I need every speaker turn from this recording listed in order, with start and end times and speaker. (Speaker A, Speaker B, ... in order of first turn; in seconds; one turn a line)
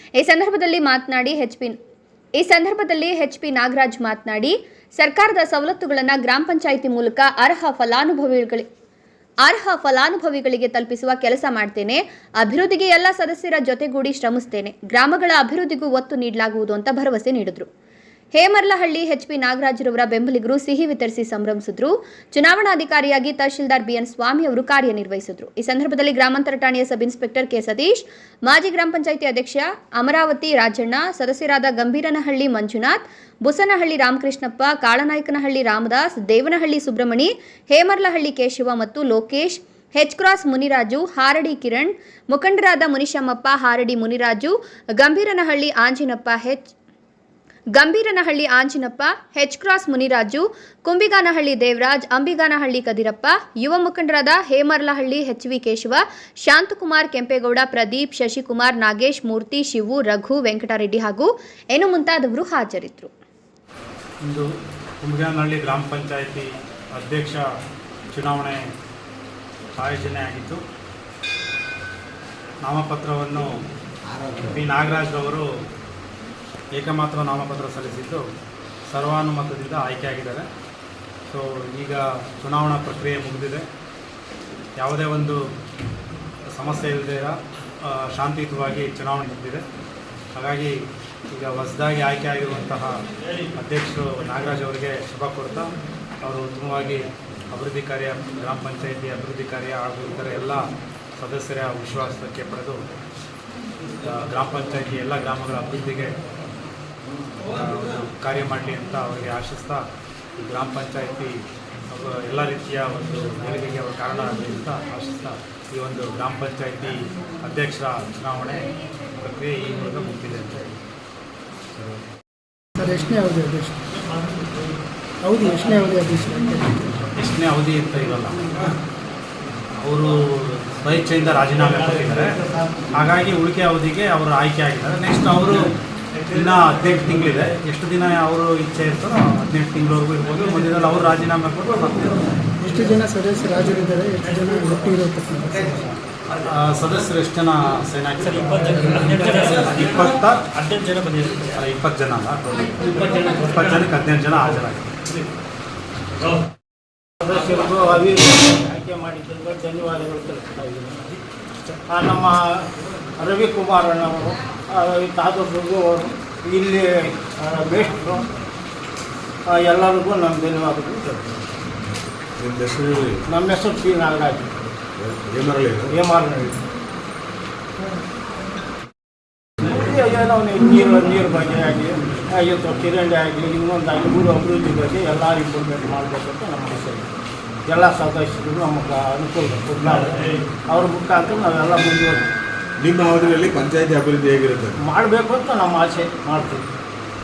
Speaker A: 0.2-1.8
Speaker A: 2.4-8.7
Speaker A: 9.4-17.7
Speaker A: 18.3-46.8
Speaker A: 47.8-63.1
Speaker B: 65.0-67.4
Speaker B: 68.1-68.6
Speaker B: 69.8-70.6
Speaker B: 72.6-73.5
Speaker B: 74.5-75.5
Speaker B: 76.8-78.2
Speaker B: 78.9-80.5
Speaker B: 81.3-83.7
Speaker B: 84.8-85.4
Speaker B: 86.5-89.6
Speaker B: 90.4-90.8
Speaker B: 91.3-92.9
Speaker B: 93.6-95.7
Speaker B: 96.2-100.6
Speaker B: 101.2-102.8
Speaker B: 104.0-106.1
Speaker B: 107.5-109.8
Speaker B: 110.4-111.3
Speaker B: 111.9-120.7
Speaker C: 122.8-124.0
Speaker C: 125.2-127.1
Speaker B: 127.2-128.5
Speaker B: 129.8-132.3
Speaker B: 133.0-135.7
Speaker B: 136.3-142.2
Speaker C: 142.6-145.9
Speaker B: 146.4-150.5
Speaker B: 151.2-154.9
Speaker D: 157.2-161.2
Speaker D: 161.9-168.3
Speaker D: 169.5-171.3
Speaker E: 172.4-173.2
Speaker D: 173.3-174.5
Speaker E: 175.0-175.9
Speaker D: 175.9-176.6
Speaker D: 179.6-187.1
Speaker D: 187.7-192.3
Speaker E: 192.8-194.7
Speaker D: 194.8-196.7